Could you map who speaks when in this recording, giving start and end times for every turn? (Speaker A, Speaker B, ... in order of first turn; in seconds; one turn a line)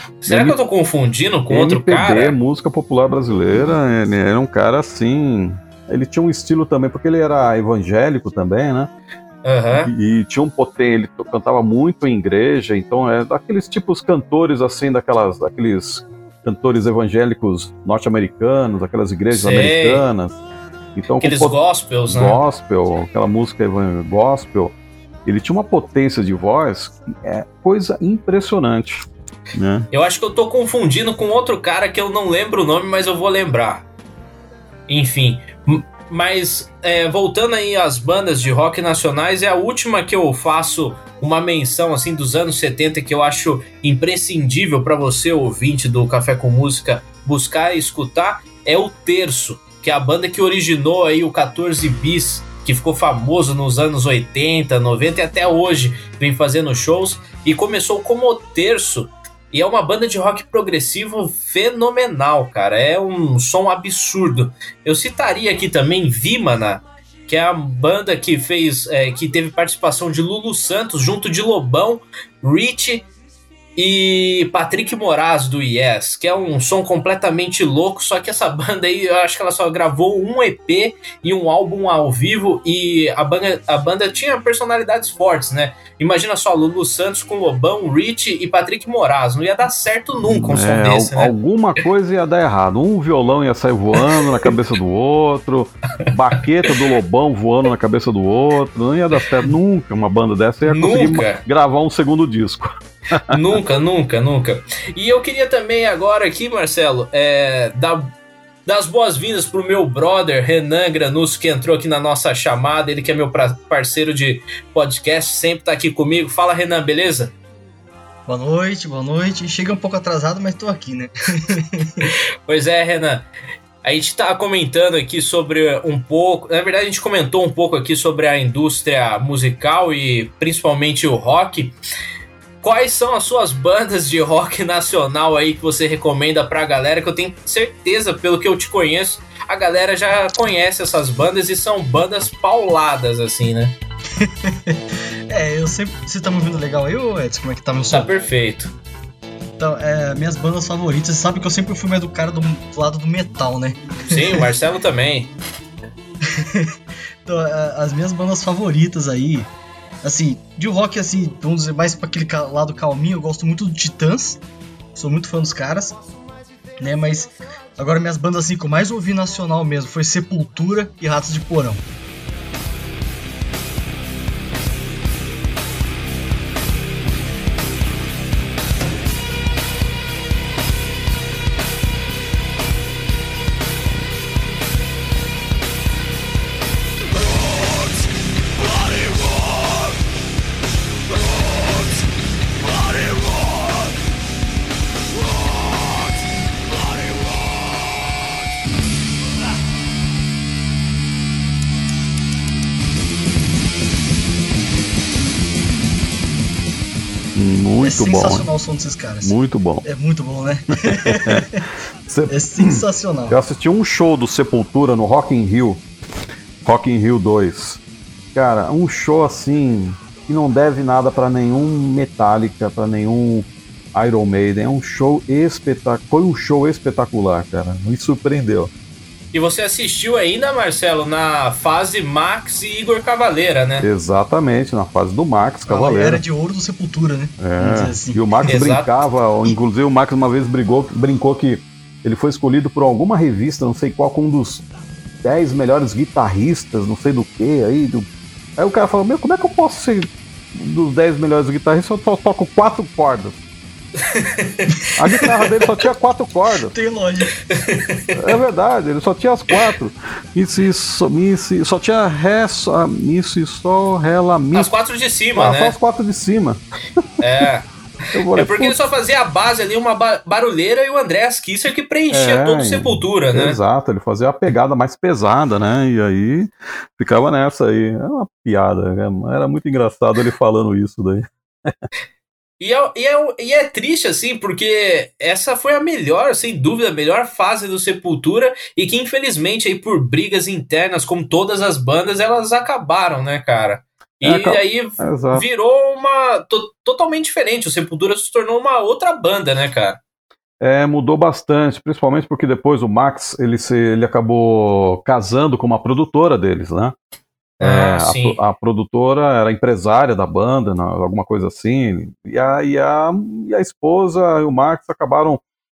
Speaker A: 0.2-2.4
Speaker B: 0.3-0.6
Speaker B: 1.5-8.9
Speaker A: 9.4-9.9
Speaker B: 9.7-20.4
Speaker A: 19.3-20.1
Speaker B: 20.9-21.6
Speaker A: 21.2-22.4
Speaker B: 22.1-29.9
Speaker A: 29.9-33.9
Speaker A: 34.9-73.1
Speaker A: 73.8-91.3
Speaker B: 90.2-103.6
Speaker A: 94.0-94.5
Speaker A: 100.6-101.4
Speaker A: 103.3-108.1
Speaker A: 108.7-117.3
Speaker C: 118.3-122.1
Speaker A: 122.0-123.3
Speaker A: 123.8-131.7
Speaker A: 132.6-143.8
Speaker C: 144.2-144.8
Speaker C: 145.3-148.1
Speaker A: 147.9-148.7
Speaker C: 149.6-154.5
Speaker A: 154.1-155.3
Speaker C: 156.2-156.7
Speaker C: 157.2-159.5
Speaker C: 160.0-164.4
Speaker C: 164.9-166.0
Speaker C: 166.8-171.8
Speaker B: 207.3-208.5
Speaker C: 207.8-211.7
Speaker B: 209.2-209.8
Speaker B: 210.8-215.8
Speaker C: 212.3-213.4
Speaker B: 216.7-217.8
Speaker B: 218.3-228.7
Speaker A: 229.3-233.9
Speaker B: 233.8-236.2
Speaker C: 235.7-238.2
Speaker B: 237.4-244.7
Speaker A: 238.5-238.9
Speaker B: 245.2-248.1
Speaker B: 248.6-253.4
Speaker A: 254.1-255.4
Speaker B: 255.0-256.7
Speaker C: 256.7-257.4
Speaker A: 257.4-258.1
Speaker B: 258.1-264.7
Speaker A: 264.5-265.8
Speaker B: 265.4-267.2
Speaker A: 267.2-267.7
Speaker B: 268.1-268.8
Speaker A: 268.3-273.6
Speaker B: 272.1-281.9
Speaker A: 282.6-300.0
Speaker B: 294.2-295.4
Speaker B: 300.6-306.9
Speaker A: 307.6-308.4
Speaker B: 307.6-315.4